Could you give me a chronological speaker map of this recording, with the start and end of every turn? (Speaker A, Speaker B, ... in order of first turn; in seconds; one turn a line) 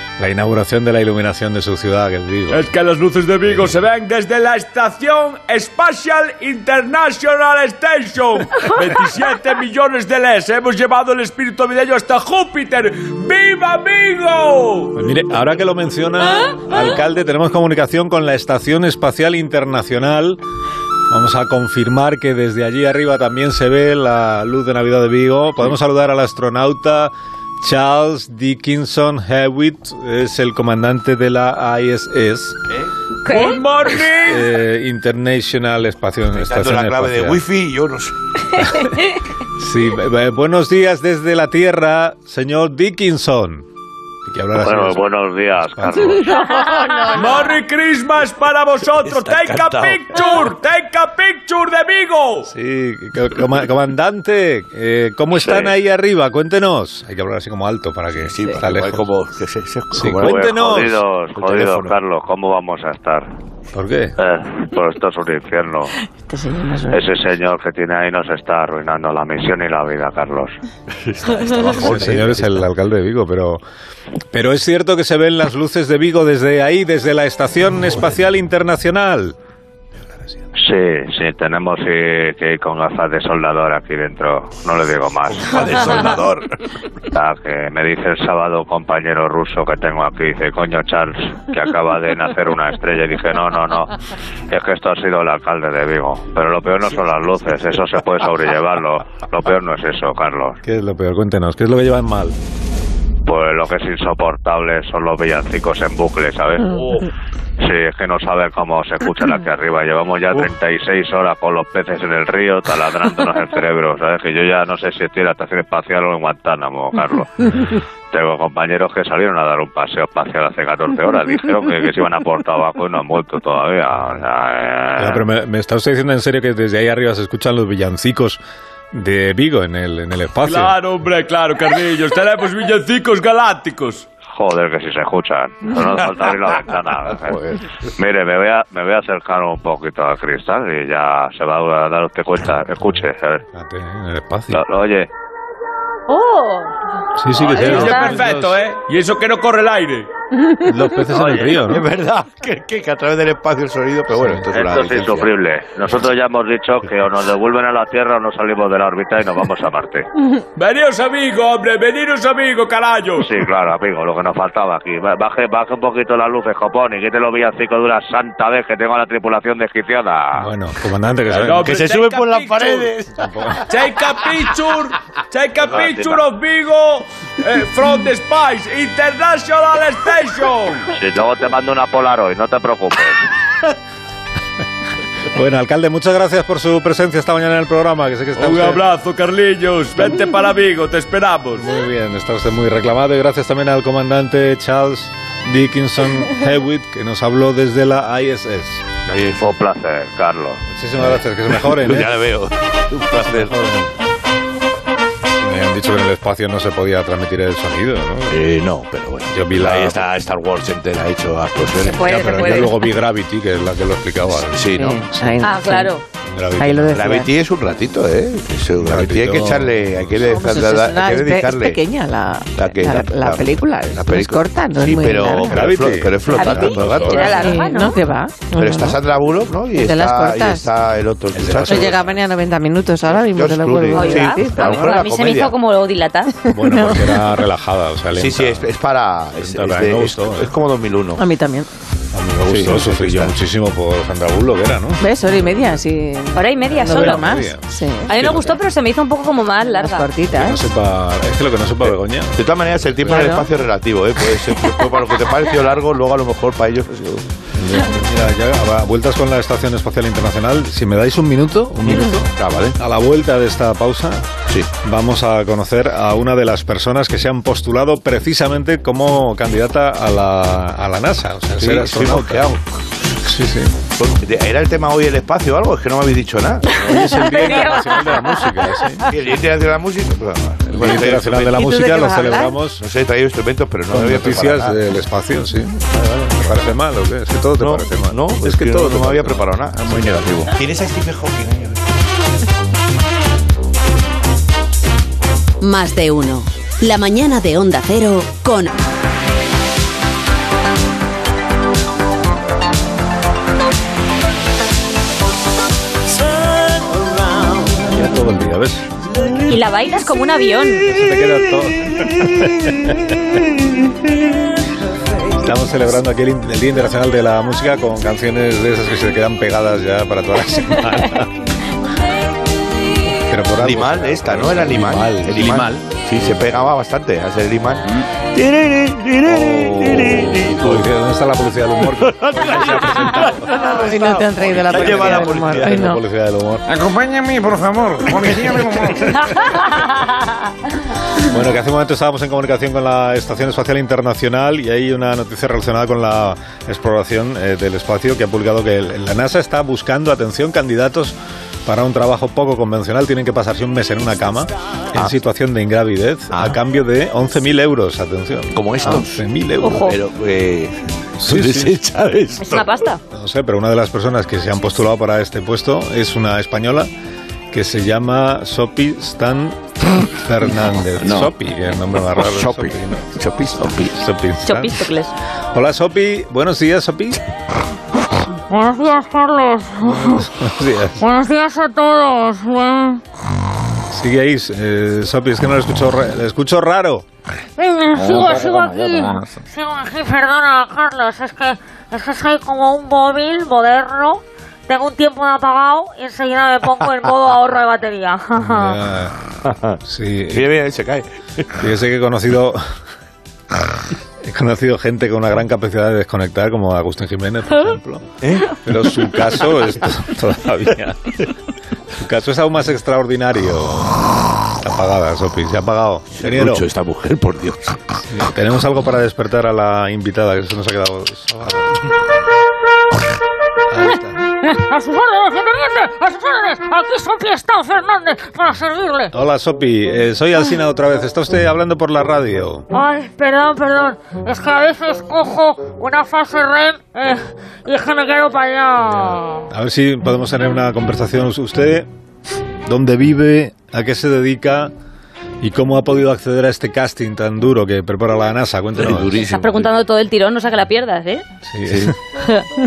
Speaker A: 0.2-2.6
Speaker B: 2.5-14.9
Speaker A: 3.5-3.7
Speaker A: 14.9-20.4
Speaker A: 21.1-32.6
Speaker C: 33.2-33.6
Speaker B: 33.3-34.5
Speaker A: 34.1-37.4
Speaker D: 36.4-38.1
Speaker A: 38.6-38.9
Speaker A: 39.6-43.7
Speaker A: 44.3-45.0
Speaker E: 44.6-46.2
Speaker A: 45.7-46.2
Speaker C: 46.5-47.5
Speaker F: 46.6-47.1
Speaker B: 47.1-52.5
Speaker D: 49.0-50.2
Speaker A: 52.5-59.1
Speaker D: 58.2-62.0
Speaker A: 59.9-61.0
Speaker E: 60.2-63.3
Speaker A: 63.7-64.2
Speaker E: 64.2-65.9
Speaker F: 66.1-67.1
Speaker E: 66.9-70.6
Speaker D: 71.0-72.6
Speaker A: 71.6-73.6
Speaker A: 74.3-79.3
Speaker E: 80.6-86.1
Speaker D: 85.3-86.5
Speaker E: 87.1-93.9
Speaker E: 94.5-100.6
Speaker A: 100.6-102.4
Speaker E: 103.3-106.8
Speaker D: 106.8-107.0
Speaker E: 107.6-125.2
Speaker A: 125.0-128.4
Speaker A: 128.9-130.8
Speaker B: 130.5-134.1
Speaker E: 134.3-143.4
Speaker A: 143.5-144.6
Speaker E: 144.5-145.1
Speaker C: 146.1-146.7
Speaker A: 147.2-148.6
Speaker B: 147.4-150.1
Speaker A: 150.6-151.8
Speaker E: 151.2-151.5
Speaker D: 151.4-155.3
Speaker A: 154.1-154.5
Speaker E: 154.5-160.1
Speaker B: 160.6-163.3
Speaker E: 163.2-170.5
Speaker A: 170.4-171.7
Speaker B: 171.3-172.9
Speaker D: 171.6-173.2
Speaker A: 173.2-173.7
Speaker B: 173.7-180.9
Speaker E: 175.7-176.2
Speaker E: 180.9-183.2
Speaker A: 185.3-188.8
Speaker B: 188.4-191.7
Speaker A: 191.6-198.9
Speaker D: 199.1-199.5
Speaker E: 199.4-200.6
Speaker A: 200.7-202.2
Speaker D: 201.0-203.5
Speaker A: 203.2-203.9
Speaker A: 205.4-208.4
Speaker D: 208.3-212.2
Speaker A: 209.3-210.1
Speaker C: 211.8-212.8
Speaker A: 212.0-215.4
Speaker D: 214.5-215.0
Speaker F: 214.8-216.0
Speaker C: 215.4-216.0
Speaker A: 216.2-217.0
Speaker F: 216.6-217.3
Speaker D: 216.9-221.8
Speaker A: 218.8-220.3
Speaker F: 220.2-225.8
Speaker D: 222.6-227.4
Speaker A: 225.5-227.4
Speaker F: 226.3-229.0
Speaker C: 226.4-228.0
Speaker D: 228.6-232.2
Speaker F: 229.7-230.7
Speaker A: 231.3-232.1
Speaker F: 231.6-235.0
Speaker D: 233.2-235.5
Speaker C: 233.9-236.3
Speaker F: 236.5-237.4
Speaker A: 236.5-238.7
Speaker D: 238.2-241.2
Speaker A: 239.4-240.5
Speaker F: 241.2-241.7
Speaker A: 242.1-245.0
Speaker D: 242.4-243.3
Speaker F: 245.0-248.5
Speaker C: 246.3-247.3
Speaker A: 246.8-248.5
Speaker C: 248.1-250.1
Speaker F: 249.6-250.7
Speaker A: 250.3-253.4
Speaker D: 252.4-257.3
Speaker F: 253.2-253.4
Speaker A: 257.6-264.3
Speaker D: 261.9-262.8
Speaker A: 264.8-272.6
Speaker D: 271.6-272.6
Speaker A: 273.2-273.8
Speaker D: 274.0-277.1
Speaker A: 276.7-279.1
Speaker G: 277.2-278.2
Speaker D: 279.1-281.5
Speaker A: 280.7-282.8
Speaker F: 281.5-282.6
Speaker D: 282.8-284.8
Speaker A: 283.9-290.5
Speaker D: 285.9-286.6
Speaker D: 287.6-291.8
Speaker H: 295.6-298.7
Speaker A: 307.7-308.9
Speaker C: 309.5-310.9
Speaker A: 310.8-313.4
Speaker A: 315.3-321.3
Speaker A: 323.3-326.6
Speaker D: 323.6-330.9
Speaker A: 329.2-333.6
Speaker D: 331.9-335.9
Speaker F: 333.4-336.0
Speaker A: 334.6-336.9
Speaker A: 338.0-339.6
Speaker A: 341.2-359.9
Speaker D: 356.3-356.6
Speaker D: 358.5-359.2
Speaker C: 359.6-360.0
Speaker D: 359.7-362.7
Speaker A: 361.2-361.8
Speaker C: 362.4-363.0
Speaker A: 363.1-366.9
Speaker A: 367.5-374.9
Speaker D: 371.0-371.3
Speaker D: 372.2-374.0
Speaker C: 374.4-375.1
Speaker A: 375.5-377.2
Speaker G: 378.5-380.3
Speaker A: 379.9-381.0
Speaker G: 381.0-383.0
Speaker A: 383.9-387.1
Speaker G: 387.6-398.8
Speaker A: 398.4-399.2
Speaker D: 399.4-399.8
Speaker A: 399.8-400.5
Speaker D: 400.3-401.5
Speaker A: 401.6-402.7
Speaker A: 404.2-411.2
Speaker D: 408.2-408.6
Speaker A: 412.0-414.0
Speaker A: 414.6-416.7
Speaker D: 416.1-418.0
Speaker A: 418.1-422.0
Speaker A: 423.7-424.2
Speaker G: 424.4-429.1
Speaker A: 429.1-432.7
Speaker G: 432.7-439.4
Speaker A: 438.9-441.9
Speaker A: 442.7-444.7
Speaker A: 445.4-449.3
Speaker D: 448.8-449.7
Speaker C: 449.2-451.2
Speaker A: 451.5-451.9
Speaker D: 451.7-451.9